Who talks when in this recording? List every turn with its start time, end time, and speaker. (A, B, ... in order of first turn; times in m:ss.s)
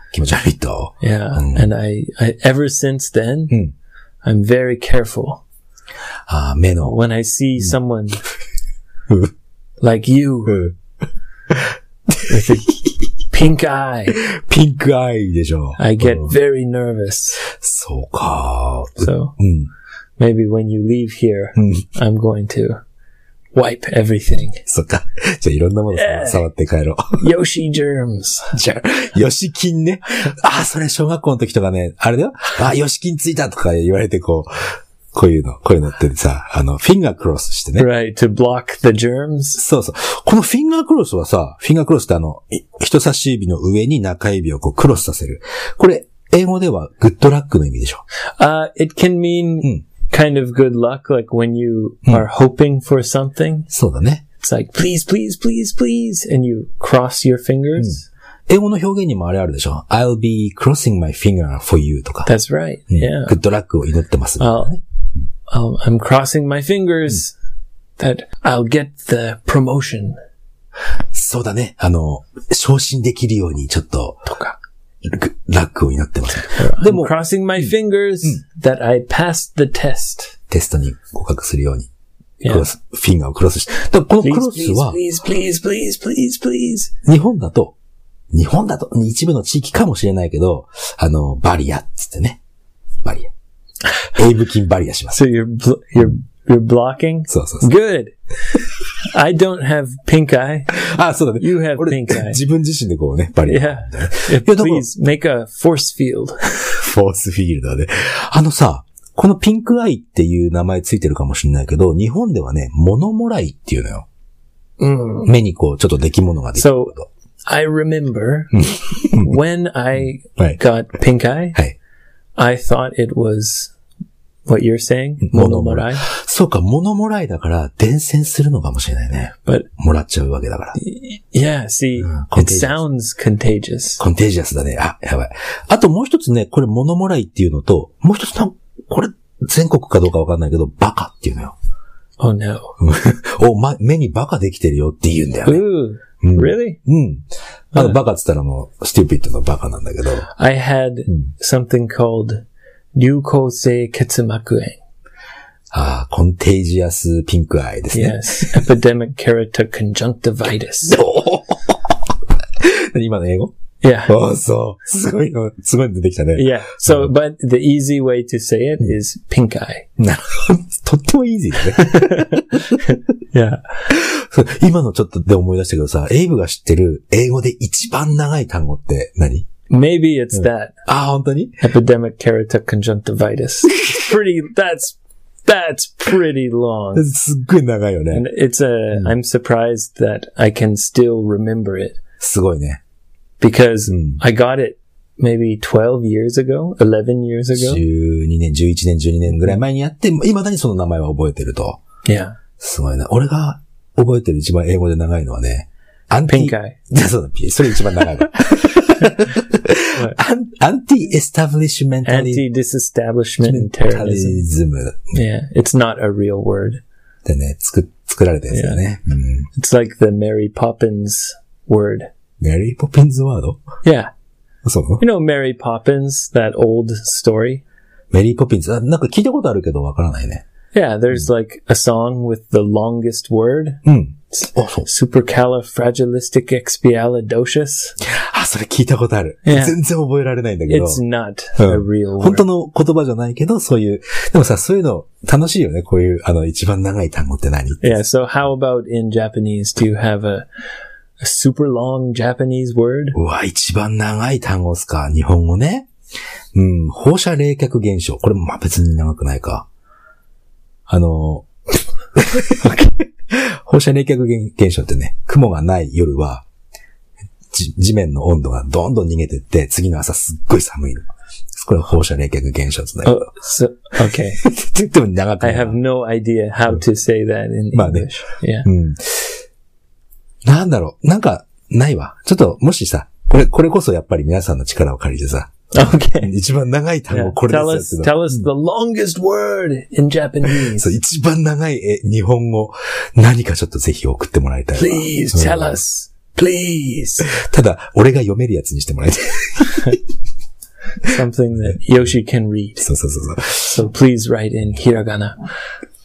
0:00.1-0:01.7 A
0:01.0-0:03.6 B
0:04.2-0:05.4 B
0:06.3-0:07.0 A
0:06.8-0:08.2 B
0:09.8-0:10.6 B
0:10.5-0:10.8 A
0:11.5-0:12.6 A
0:12.3-0:14.2 B
0:14.1-0:16.3 A
0:15.8-0:17.4 B
0:17.4-0:19.7 A
0:19.0-0:19.4 B
0:20.2-0:22.8 B
0:21.6-0:21.8 A
0:23.5-0:24.6 B
0:24.6-0:27.2 A
0:25.9-0:26.5 B
0:27.2-0:28.5 B
0:28.5-0:37.9 A
0:37.8-0:39.6 B
0:39.6-0:48.0 A
0:48.4-0:53.7 B
0:53.7-0:54.2 A
0:54.4-0:58.0 B
0:57.8-1:02.3 A
1:02.2-1:03.4 B
1:02.9-1:04.8 A
1:04.4-1:04.7 B
1:05.5-1:07.4 B
1:08.0-1:10.2 B
1:11.1-1:14.3 A
1:14.3-1:14.6 B
1:15.0-1:17.2 A
1:16.5-1:20.4 B
1:20.5-1:21.9 A
1:22.4-1:22.7 B
1:22.4-1:25.0 A
1:24.2-1:26.9 B
1:27.0-1:27.8 A
1:28.3-1:32.4 A
1:33.0-1:33.3 A
1:34.1-1:35.2 A
1:35.1-1:38.1 B
1:37.3-1:37.7 A
1:39.0-1:40.8 B
1:40.7-1:44.9 A
1:41.4-1:42.4 B
1:43.5-1:46.5 B
1:46.6-1:54.0 A
1:54.8-1:55.3 B
1:55.2-1:57.1 A
1:56.6-1:56.9 B
1:57.5-2:01.6 B
1:58.5-1:59.4 A
2:02.4-2:03.7 B
2:04.5-2:06.1 B
2:05.2-2:10.8 A
2:10.8-2:14.0 B
2:12.0-2:12.8 A
2:14.0-2:21.5 A
2:22.2-2:22.8 B
2:22.8-2:25.6 A
2:25.4-2:26.8 B
2:26.2-2:30.3 A
2:30.4-2:32.4 B
2:32.9-2:34.8 B
2:35.7-2:38.7 A
2:37.9-2:41.0 B
2:40.8-2:42.0 A
2:42.6-2:43.5 A
2:43.8-2:44.2 B
2:44.1-2:47.1 A
2:46.4-2:49.9 B
2:50.0-2:52.8 A
2:51.7-2:53.8 B
2:53.9-2:59.5 A
2:59.7-3:00.8 B
3:00.9-3:01.6 A
3:01.6-3:07.0 B
3:06.9-3:08.2 A
3:08.1-3:12.0 B
3:12.2-3:12.8 A
3:13.4-3:17.8 B
3:13.9-3:14.2 A
3:17.6-3:21.8 A
3:22.0-3:22.4 B
3:22.6-3:32.4 A
3:26.3-3:26.8 B
3:28.9-3:29.3 B
3:32.0-3:34.4 B
3:33.4-3:35.2 A
3:35.1-3:36.8 B
3:37.2-3:39.5 A
3:38.5-3:38.8 B
3:39.5-3:42.1 B
3:42.4-3:43.6 A
3:43.8-3:44.1 B
3:44.6-3:45.0 A
3:45.0-3:47.6 B
3:48.1-3:50.4 A
3:50.7-3:58.0 B
3:53.8-3:54.9 A
3:58.0-4:01.0 A
3:59.4-3:59.8 B
4:00.7-4:02.4 B
4:01.6-4:08.0 A
4:07.8-4:10.5 B
4:11.2-4:13.2 B
4:13.1-4:15.9 A
4:16.5-4:19.7 A
4:20.9-4:21.5 A
4:22.1-4:26.5 A
4:27.5-4:33.2 A
4:33.0-4:34.4 B
4:34.4-4:35.8 A
4:35.4-4:38.7 B
4:37.7-4:38.1 A
4:38.6-4:39.4 A
4:40.4-4:45.5 A
4:45.7-4:46.3 B
4:46.2-4:48.4 A
4:47.1-4:50.9 B
4:50.5-4:55.8 A
4:54.8-4:57.4 B
4:57.2-5:00.0 A
5:01.0-5:02.9 B
5:02.8-5:03.8 A
5:03.6-5:05.4 B